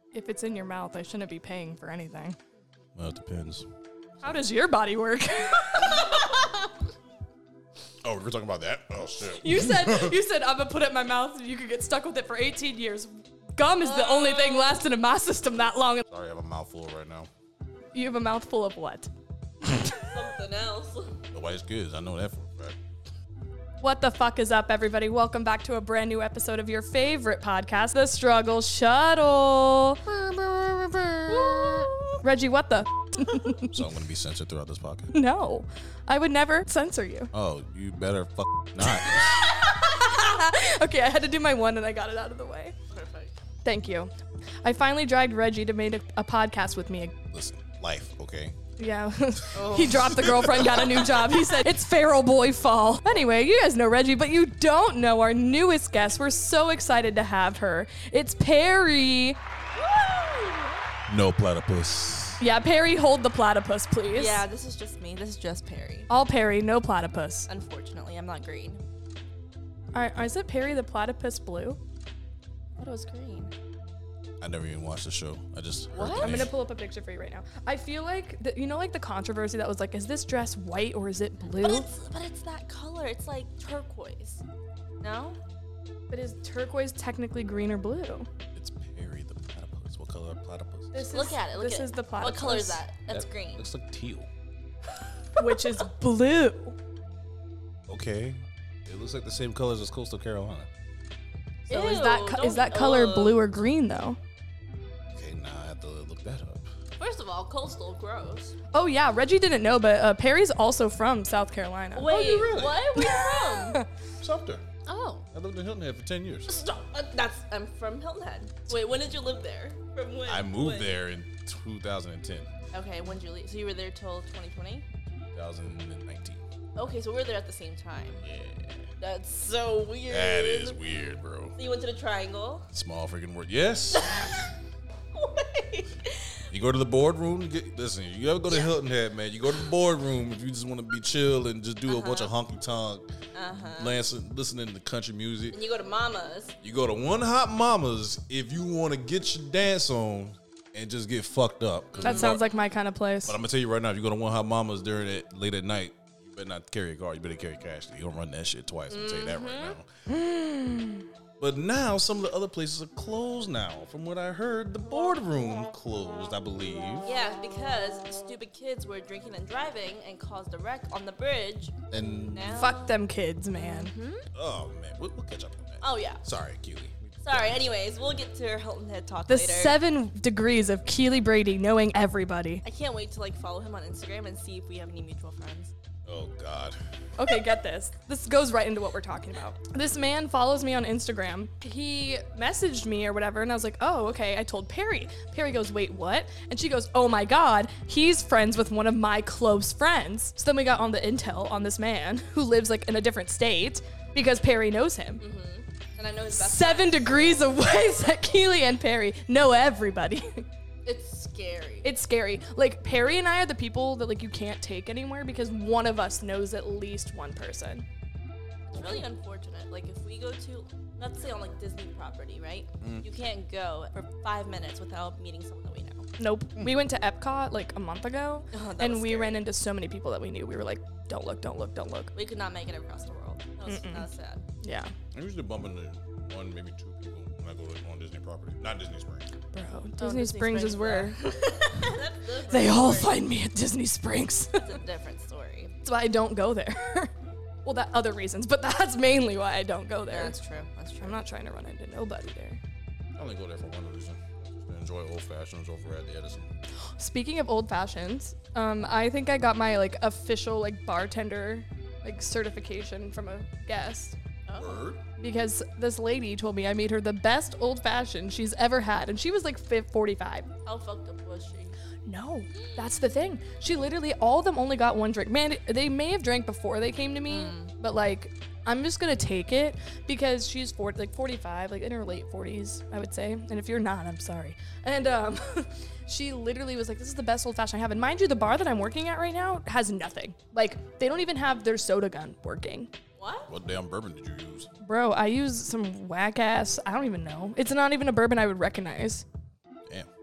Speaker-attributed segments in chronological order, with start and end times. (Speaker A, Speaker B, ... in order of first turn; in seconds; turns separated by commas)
Speaker A: 0.1-2.4, Speaker B: 3.0-3.6, Speaker A: 4.2-6.3, Speaker C: 6.1-6.4, Speaker B: 8.0-10.2, Speaker A: 9.4-16.0, Speaker C: 13.8-14.8, Speaker B: 16.1-17.3, Speaker A: 17.9-19.1, Speaker A: 19.6-20.2, Speaker C: 20.1-21.2, Speaker B: 21.3-22.8, Speaker A: 23.8-33.8, Speaker C: 31.3-32.2, Speaker B: 33.7-35.1, Speaker A: 35.1-37.3, Speaker B: 37.3-39.3, Speaker A: 38.9-42.8, Speaker C: 42.9-43.4, Speaker A: 43.6-44.1, Speaker A: 44.6-47.1, Speaker B: 47.3-48.6, Speaker A: 48.8-59.4, Speaker C: 49.5-51.3, Speaker B: 49.6-51.0, Speaker C: 59.8-60.8, Speaker B: 61.1-62.4, Speaker A: 62.4-64.4, Speaker C: 64.1-66.1, Speaker A: 66.1-67.5, Speaker C: 67.5-68.8, Speaker A: 69.9-71.8, Speaker C: 72.8-73.5, Speaker B: 74.4-76.5, Speaker C: 76.0-76.5, Speaker A: 76.1-81.9, Speaker C: 81.5-84.4, Speaker C: 85.0-85.4, Speaker A: 86.1-88.3, Speaker B: 88.5-91.1, Speaker A: 90.9-92.8, Speaker C: 91.1-93.7, Speaker B: 93.1-94.3, Speaker A: 95.4-96.8, Speaker B: 97.9-100.7, Speaker A: 101.7-104.2, Speaker C: 101.7-103.4, Speaker B: 105.2-106.7, Speaker C: 107.0-108.5, Speaker A: 108.7-113.9, Speaker C: 111.9-113.8, Speaker B: 112.1-112.8, Speaker B: 114.2-114.6, Speaker C: 114.8-115.3, Speaker B: 115.3-116.6, Speaker C: 116.5-121.0, Speaker B: 119.1-119.4, Speaker B: 120.3-122.5, Speaker C: 122.7-124.9, Speaker B: 125.1-126.5, Speaker C: 126.8-128.2, Speaker B: 128.2-128.9, Speaker C: 129.0-130.8, Speaker B: 130.1-131.6, Speaker C: 131.6-132.7, Speaker B: 132.7-134.3, Speaker C: 133.9-134.5, Speaker C: 135.1-136.4, Speaker B: 136.5-143.2, Speaker C: 138.5-138.7, Speaker C: 141.9-142.3, Speaker C: 143.3-144.0, Speaker B: 143.8-145.6, Speaker C: 145.5-146.6, Speaker B: 146.6-152.4, Speaker C: 151.9-152.4, Speaker A: 152.0-153.4, Speaker B: 153.3-159.9, Speaker C: 158.9-159.8, Speaker A: 160.1-161.1, Speaker B: 161.4-167.1, Speaker C: 167.0-172.9, Speaker B: 171.9-172.6, Speaker A: 172.6-173.9, Speaker C: 173.5-174.3, Speaker B: 174.3-177.9, Speaker C: 175.8-176.2, Speaker C: 177.2-179.8, Speaker A: 179.3-182.6, Speaker C: 182.6-185.7, Speaker B: 186.1-186.8, Speaker A: 187.2-205.2, Speaker C: 205.2-207.5, Speaker A: 206.3-210.4, Speaker C: 210.9-211.9, Speaker A: 211.8-217.8, Speaker C: 218.7-226.1, Speaker B: 218.8-219.0, Speaker B: 222.8-223.1, Speaker A: 226.2-232.1, Speaker C: 228.5-229.4, Speaker C: 232.2-234.4, Speaker A: 233.7-234.1, Speaker A: 234.6-234.9, Speaker B: 235.1-239.3, Speaker A: 239.5-241.2, Speaker C: 240.0-243.2, Speaker A: 242.5-244.7, Speaker C: 244.6-245.7, Speaker A: 245.8-247.1, Speaker A: 247.7-250.3, Speaker C: 250.1-251.2, Speaker A: 251.0-252.6, Speaker B: 253.2-256.5, Speaker A: 257.0-264.2, Speaker C: 264.5-264.8, Speaker B: 264.6-265.0, Speaker A: 265.2-270.5, Speaker C: 270.6-271.8, Speaker A: 272.1-292.9, Speaker C: 277.3-277.7, Speaker C: 293.2-293.5, Speaker B: 293.5-294.7, Speaker A: 294.8-299.2